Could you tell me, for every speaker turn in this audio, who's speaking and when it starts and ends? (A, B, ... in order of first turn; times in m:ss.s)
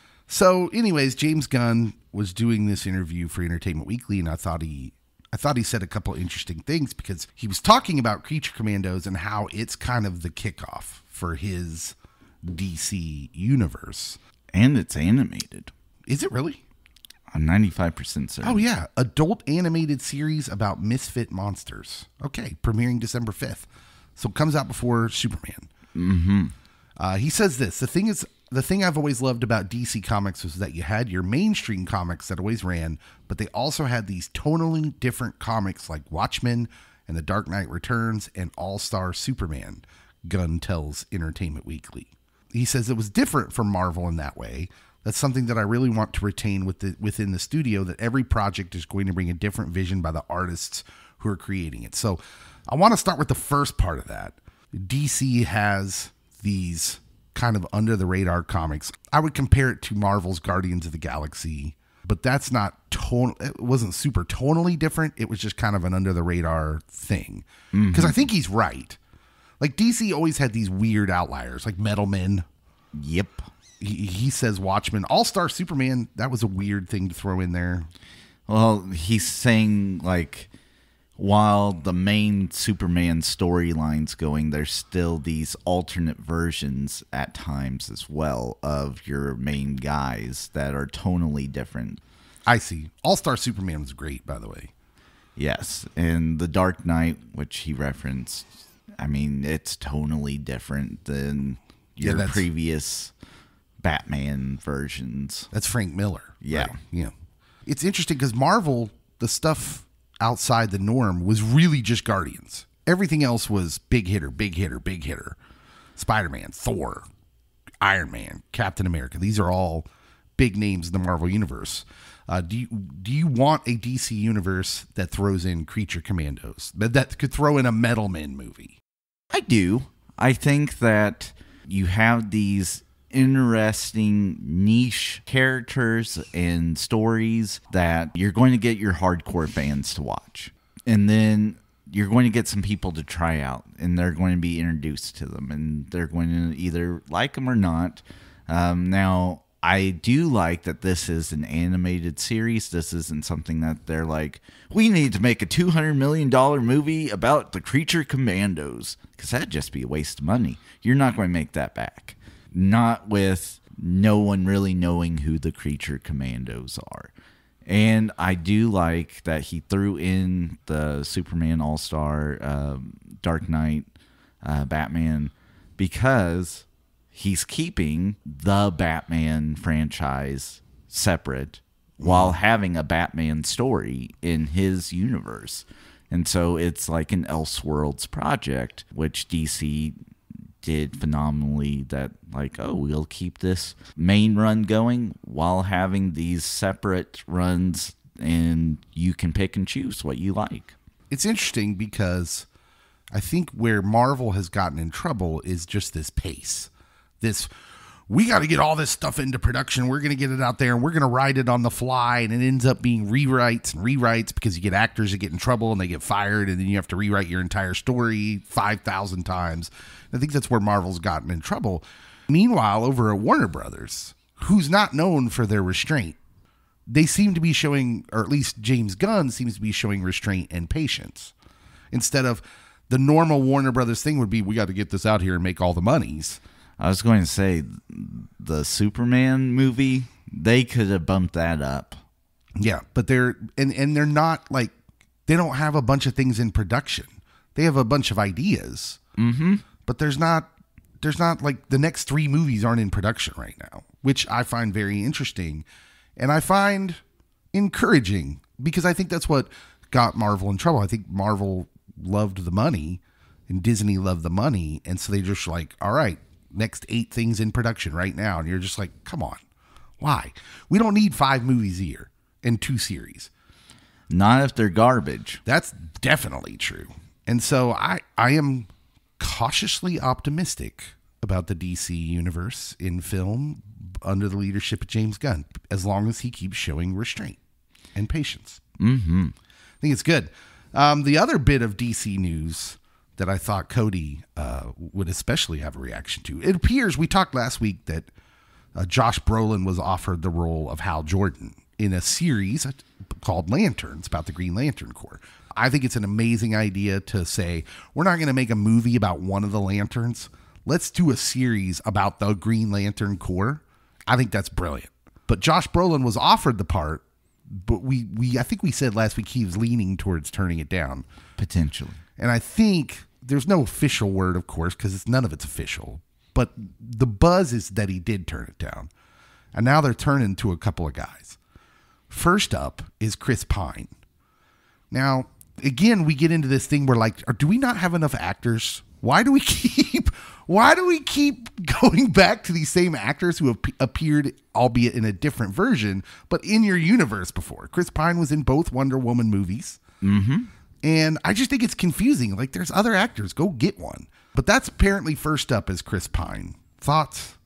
0:00.3-0:14.2 A
0:14.5-0:15.7 B
0:16.1-0:16.6 A
0:17.3-0:18.6 B
0:18.4-0:25.7 A
0:25.9-0:26.5 B
0:27.0-1:09.0 A
1:07.7-1:08.2 B
1:09.6-1:12.4 A
1:12.9-1:13.4 B
1:13.8-1:17.9 A
1:18.5-1:20.5 B
1:21.2-1:32.0 B
1:32.5-1:34.7 A
1:35.4-1:38.5 B
1:39.0-1:43.1 B
1:42.0-1:42.5 A
1:43.8-1:45.5 B
1:45.5-1:47.1 A
1:46.4-1:46.8 B
1:47.6-1:55.4 A
1:56.0-1:57.0 A
1:57.8-2:08.8 A
2:09.3-2:47.1 B
2:47.6-2:53.9 B
2:54.4-3:10.0 B
3:02.0-3:02.4 A
3:10.6-3:20.7 B
3:21.1-3:22.5 A
3:23.1-3:26.7 A
3:27.2-3:27.5 A
3:28.1-3:46.2 A
3:46.9-3:51.3 A
3:51.9-3:56.4 A
3:56.8-4:02.0 B
4:02.6-4:04.7 A
4:05.3-4:09.0 A
4:09.2-4:09.6 B
4:09.8-4:10.5 A
4:11.0-4:15.6 A
4:16.2-4:17.0 A
4:17.5-4:29.4 A
4:30.0-4:33.3 A
4:34.1-4:35.4 B
4:35.4-4:47.4 A
4:47.9-4:48.6 A
4:48.8-4:49.3 B
4:49.8-4:58.1 A
4:58.7-5:21.0 A
5:21.4-5:22.0 B
5:22.2-5:28.9 A
5:29.5-5:31.4 A
5:32.1-5:33.9 A
5:34.9-5:49.8 A
5:50.0-5:50.5 B
5:50.8-5:57.4 A